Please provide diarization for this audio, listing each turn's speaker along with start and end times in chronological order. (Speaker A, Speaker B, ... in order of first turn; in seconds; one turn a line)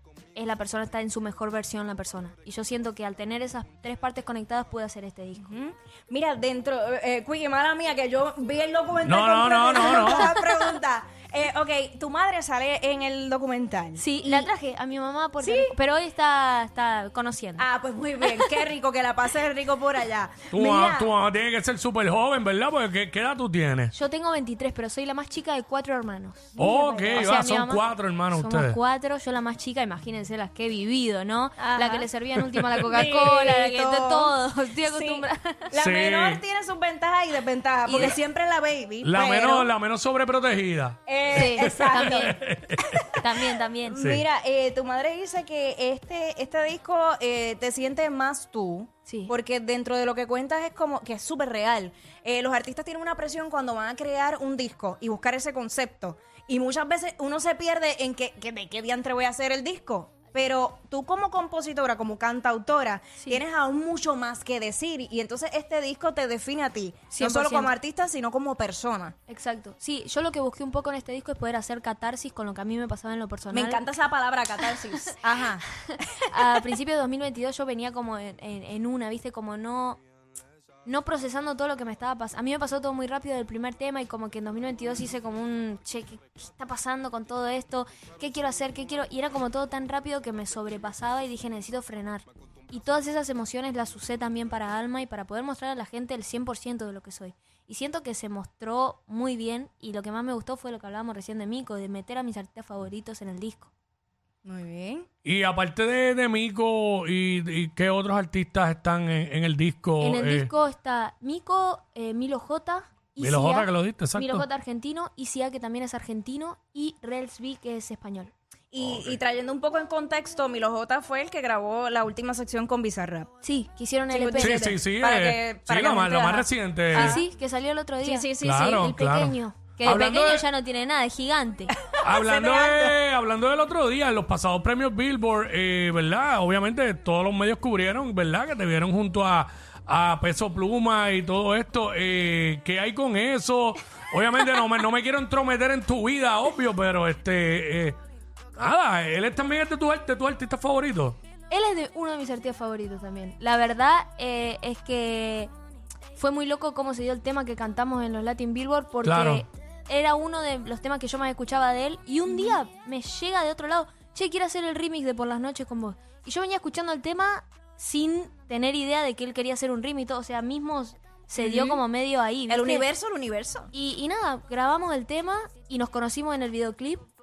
Speaker A: 0.3-5.5
Speaker B: 5.4-14.5
Speaker C: 9.0-10.4
Speaker A: 9.8-10.4
Speaker A: 14.0-17.7
Speaker B: 15.4-15.8
Speaker B: 17.6-21.1
Speaker A: 18.2-18.5
Speaker C: 20.5-23.9
Speaker A: 23.9-26.6
Speaker B: 26.6-27.4
Speaker C: 26.6-28.8
Speaker A: 27.1-35.7
Speaker B: 31.6-32.1
Speaker C: 32.4-32.7
Speaker B: 32.9-39.7
Speaker C: 35.8-36.4
Speaker A: 37.9-38.2
Speaker C: 39.0-43.1
Speaker B: 41.1-42.4
Speaker A: 41.3-42.4
Speaker A: 43.2-44.0
Speaker B: 43.9-69.1
Speaker C: 44.0-44.2
Speaker A: 49.1-49.3
Speaker A: 67.1-67.7
Speaker A: 69.3-73.9
Speaker B: 73.5-75.7
Speaker A: 75.8-80.0
Speaker A: 80.8-103.7
Speaker B: 104.5-105.1
Speaker C: 105.2-110.5
Speaker A: 110.0-118.3
Speaker C: 113.2-114.5
Speaker B: 118.7-123.3
Speaker C: 118.8-119.2
Speaker A: 123.4-124.8
Speaker B: 124.1-127.2
Speaker C: 124.4-127.2
Speaker A: 126.9-131.7
Speaker B: 128.0-128.7
Speaker C: 128.4-130.5
Speaker B: 131.9-133.0
Speaker C: 132.0-148.0
Speaker C: 148.6-151.2
Speaker A: 151.5-155.5
Speaker A: 156.2-172.9
Speaker C: 159.0-159.4
Speaker B: 162.3-162.6
Speaker B: 171.4-171.8
Speaker B: 172.5-173.7
Speaker A: 173.7-177.1